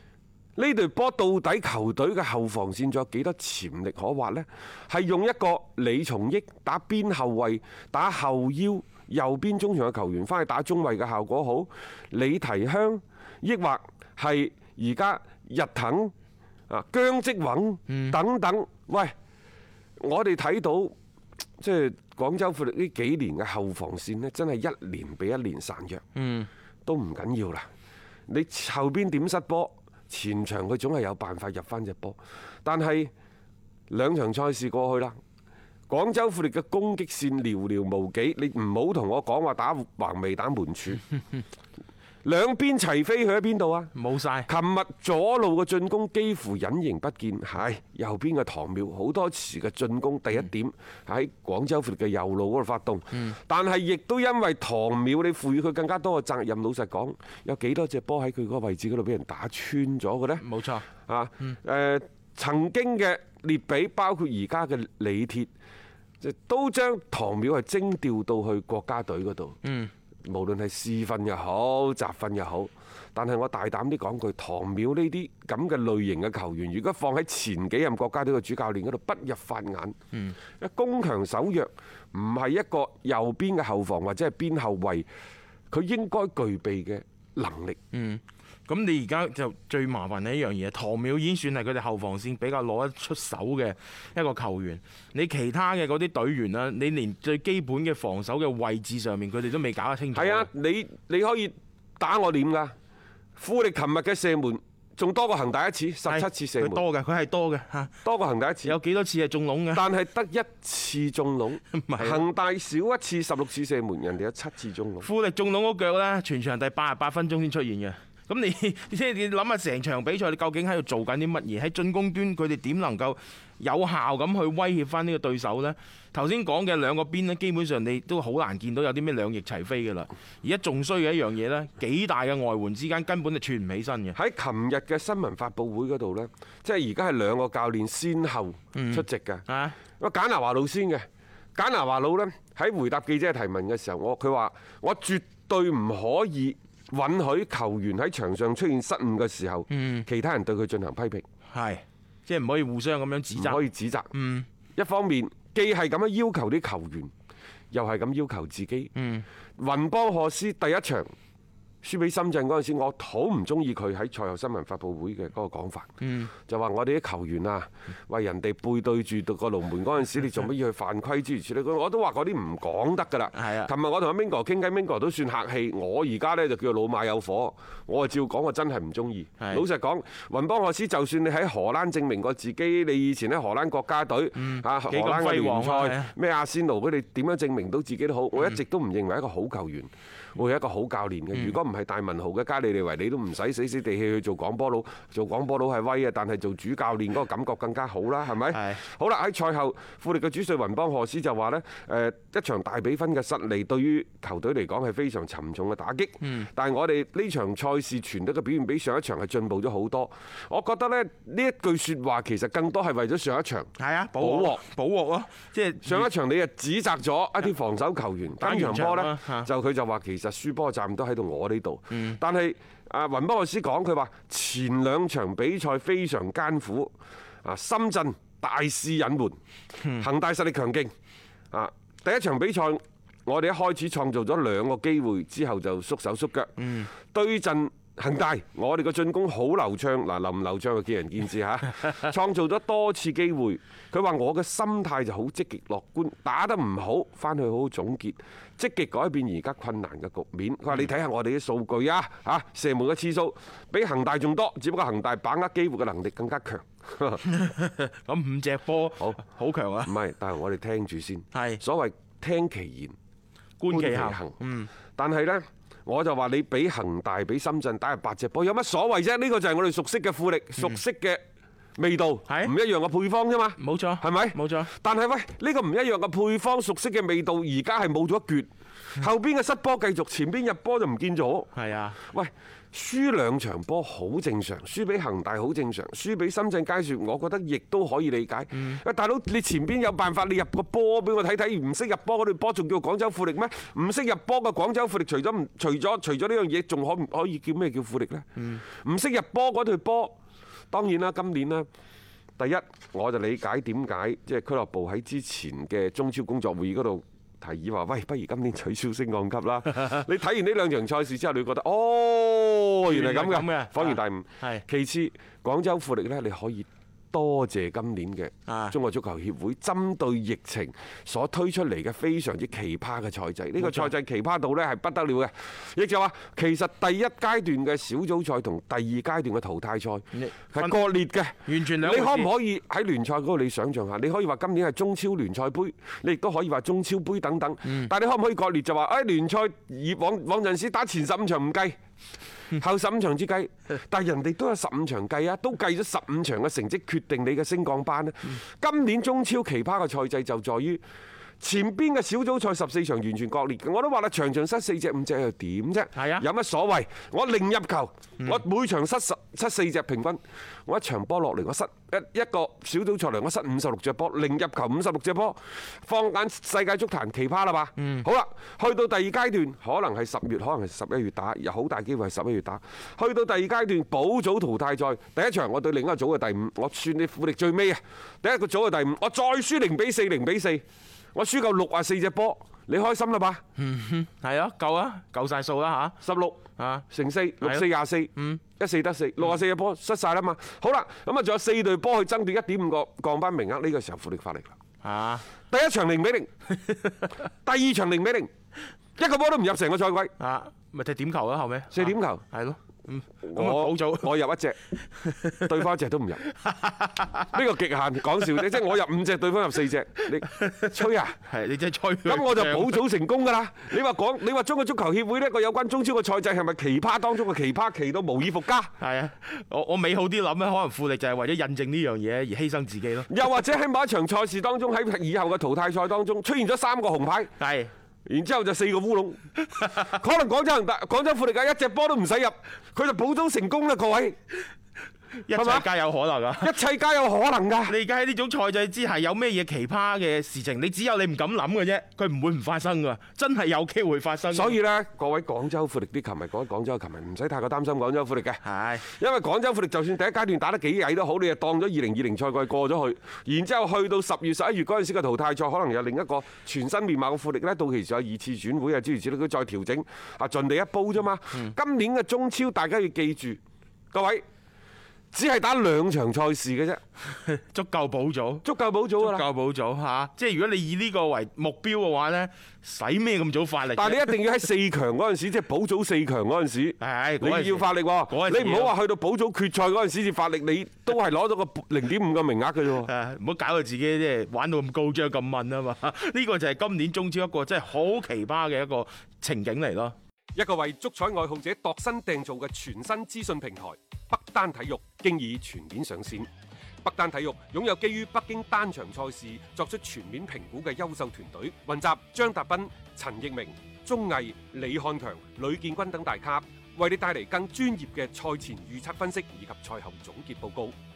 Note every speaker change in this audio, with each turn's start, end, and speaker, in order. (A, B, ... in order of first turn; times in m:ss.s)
0:00.6-0:16.1 A
0:16.7-0:19.1 A
0:17.9-0:18.2 B
0:20.0-0:20.9 A
0:21.6-0:26.0 A
0:26.2-0:26.5 B
0:26.9-0:27.7 A
0:28.3-0:33.1 A
0:33.9-0:35.2 A
0:35.9-0:41.0 A
0:42.2-0:43.9 A
0:44.0-0:44.5 B
0:44.5-1:00.5 A
1:00.4-1:00.9 B
1:01.1-1:05.5 A
1:06.2-1:09.6 A
1:09.6-1:09.9 B
1:10.2-1:20.0 A
1:20.6-1:25.1 A
1:25.7-1:27.8 A
1:27.9-1:40.5 B
1:40.1-1:42.7 A
1:43.4-1:46.8 A
1:46.1-1:47.9 B
1:48.0-1:48.8 A
1:48.6-1:49.8 B
1:49.7-1:55.1 A
1:51.7-1:52.2 B
1:55.0-2:14.2 B
2:14.1-2:31.2 A
2:18.8-2:19.8 B
2:29.7-2:30.1 B
2:31.5-2:34.5 B
2:33.4-2:34.1 A
2:34.8-2:37.1 A
2:37.7-2:38.9 A
2:39.0-2:39.2 B
2:39.6-2:41.1 A
2:41.8-3:34.6 A
2:46.0-2:46.3 B
2:53.4-2:53.7 B
3:04.4-3:06.1 B
3:18.5-3:18.8 B
3:26.2-3:26.5 B
3:33.8-3:36.1 B
3:35.8-3:49.4 A
3:38.4-3:39.5 B
3:41.9-3:42.2 B
3:49.8-3:50.1 B
3:50.0-3:50.9 A
3:51.5-4:17.2 A
3:56.6-3:56.9 B
4:17.3-4:20.0 B
4:19.8-4:23.0 A
4:21.3-4:21.6 B
4:23.6-4:24.7 B
4:23.7-4:24.4 A
4:25.0-4:31.2 A
4:31.8-4:41.5 A
4:32.3-4:32.5 B
4:33.6-4:34.7 B
4:41.5-4:42.0 B
4:42.0-5:00.2 A
4:48.5-4:48.8 B
4:58.4-4:58.6 B
5:00.7-5:01.7 A
5:02.4-5:41.8 A
5:12.8-5:14.6 B
5:18.5-5:18.8 B
5:23.6-5:23.9 B
5:30.1-5:30.8 B
5:31.4-5:32.3 B
5:42.6-5:50.8 A
5:51.4-6:20.6 A
5:56.0-5:56.2 B
6:07.8-6:08.1 B
6:21.2-6:23.4 A
6:23.6-6:26.0 B
6:26.0-6:34.6 A
6:26.6-6:26.9 B
6:27.4-6:28.4 B
6:34.8-6:35.3 B
6:35.5-6:36.3 A
6:36.7-6:37.1 B
6:37.4-6:38.3 A
6:39.0-6:40.1 A
6:40.2-6:44.1 B
6:41.7-6:42.2 A
6:43.2-6:44.6 A
6:45.0-6:45.4 B
6:45.4-6:46.2 A
6:46.4-6:47.3 B
6:47.3-6:51.2 A
6:51.3-6:52.8 B
6:52.0-6:58.7 A
6:58.8-7:03.1 B
7:03.1-7:07.3 A
7:07.4-7:07.7 B
7:08.1-7:14.2 A
7:15.1-7:16.5 B
7:15.3-7:15.7 A
7:16.4-7:17.8 A
7:17.7-7:24.6 B
7:24.3-7:43.4 A
7:28.4-7:28.9 B
7:43.9-7:44.2 A
7:45.1-7:46.8 A
7:47.1-7:48.4 B
7:48.4-7:49.3 A
7:49.0-7:54.2 B
7:53.8-8:02.9 A
7:56.8-7:58.7 B
8:02.8-8:10.0 B
8:10.4-8:16.3 A
8:16.8-8:30.8 A